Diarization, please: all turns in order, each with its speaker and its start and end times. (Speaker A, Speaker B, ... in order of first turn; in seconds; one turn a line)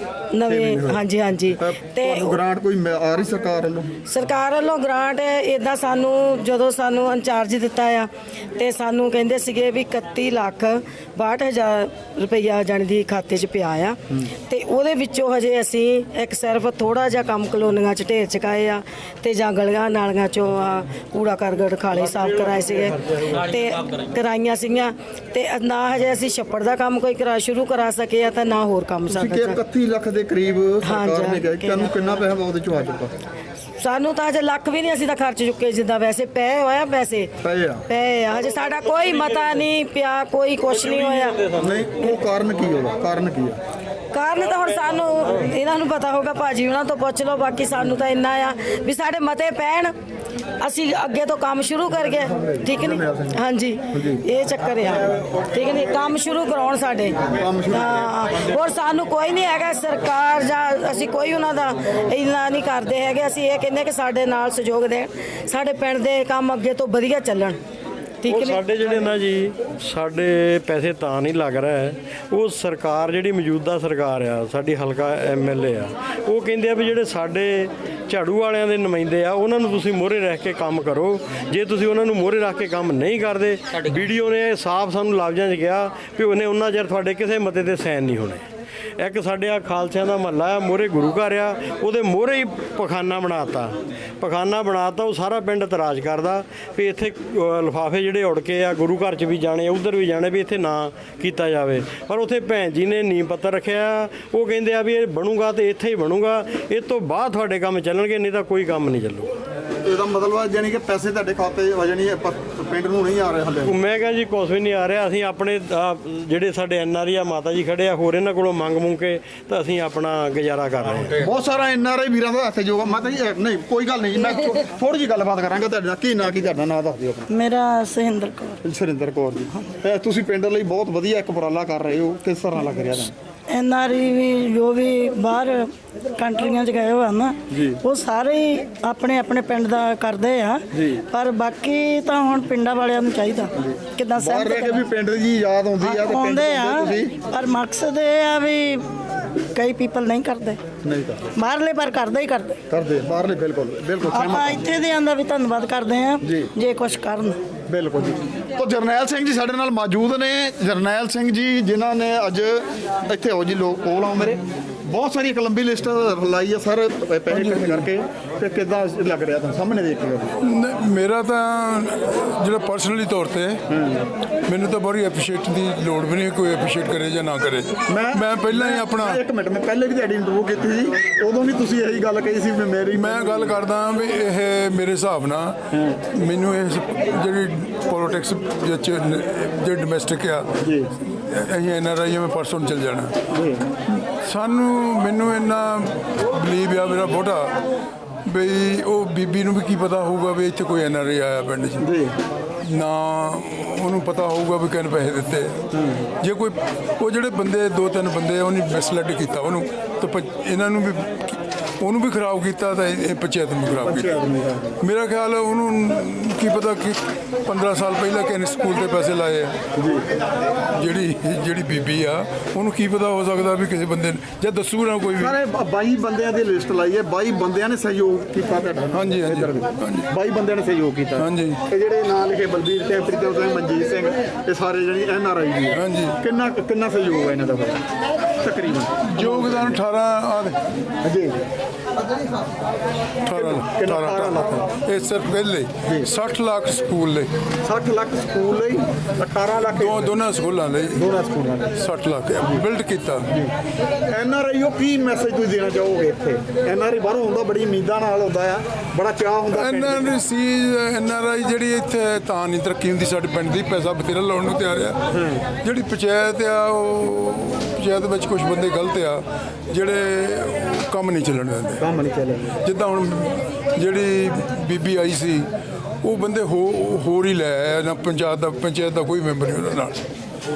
Speaker A: 0.3-2.3
Speaker B: 0.4-1.0
Speaker B: 1.6-3.9
Speaker A: 4.1-29.6
Speaker B: 29.1-33.1
Speaker A: 30.8-31.9
Speaker A: 33.8-37.3
Speaker B: 37.4-37.9
Speaker A: 37.9-41.4
Speaker C: 39.1-39.5
Speaker C: 40.7-41.9
Speaker B: 41.6-43.6
Speaker A: 44.1-49.9
Speaker A: 50.6-67.6
Speaker B: 52.1-53.4
Speaker B: 53.9-54.2
Speaker B: 57.3-58.6
Speaker A: 68.2-68.6
Speaker C: 68.2-88.4
Speaker C: 89.0-109.3
Speaker B: 109.8-113.7
Speaker C: 113.6-121.2
Speaker B: 121.2-127.3
Speaker D: 127.3-128.6
Speaker B: 128.6-133.1
Speaker D: 133.5-144.7
Speaker B: 137.5-137.8
Speaker B: 140.7-141.1
Speaker B: 143.5-147.2
Speaker D: 145.8-150.6
Speaker B: 150.8-151.4
Speaker D: 151.4-152.6
Speaker B: 152.7-154.7
Speaker D: 154.1-157.4
Speaker B: 156.2-156.5
Speaker B: 157.7-170.3
Speaker E: 167.3-167.8
Speaker E: 170.4-173.6
Speaker B: 173.7-174.1
Speaker E: 174.4-179.2
Speaker B: 177.9-183.6
Speaker E: 182.9-185.6
Speaker B: 185.7-186.0
Speaker E: 186.1-190.5
Speaker B: 190.6-190.9
Speaker E: 191.1-193.1
Speaker B: 193.3-193.7
Speaker E: 194.0-197.5
Speaker E: 198.2-201.8
Speaker B: 201.8-202.1
Speaker E: 202.6-205.6
Speaker B: 205.7-206.1
Speaker E: 206.2-214.1
Speaker B: 213.8-214.8
Speaker E: 214.8-219.5
Speaker B: 219.8-220.0
Speaker E: 220.8-225.3
Speaker B: 225.2-237.8
Speaker E: 228.9-230.0
Speaker E: 231.2-231.6
Speaker E: 235.7-236.2
Speaker B: 238.4-239.8
Speaker E: 239.1-240.6
Speaker B: 241.0-241.4
Speaker E: 243.2-247.3
Speaker B: 243.3-244.7
Speaker B: 247.6-250.1
Speaker E: 249.7-251.0
Speaker B: 250.9-251.8
Speaker E: 251.8-253.3
Speaker B: 254.1-260.1
Speaker E: 259.5-265.0
Speaker B: 265.1-265.4
Speaker E: 265.6-271.8
Speaker B: 271.8-272.6
Speaker E: 272.6-275.5
Speaker E: 276.0-280.0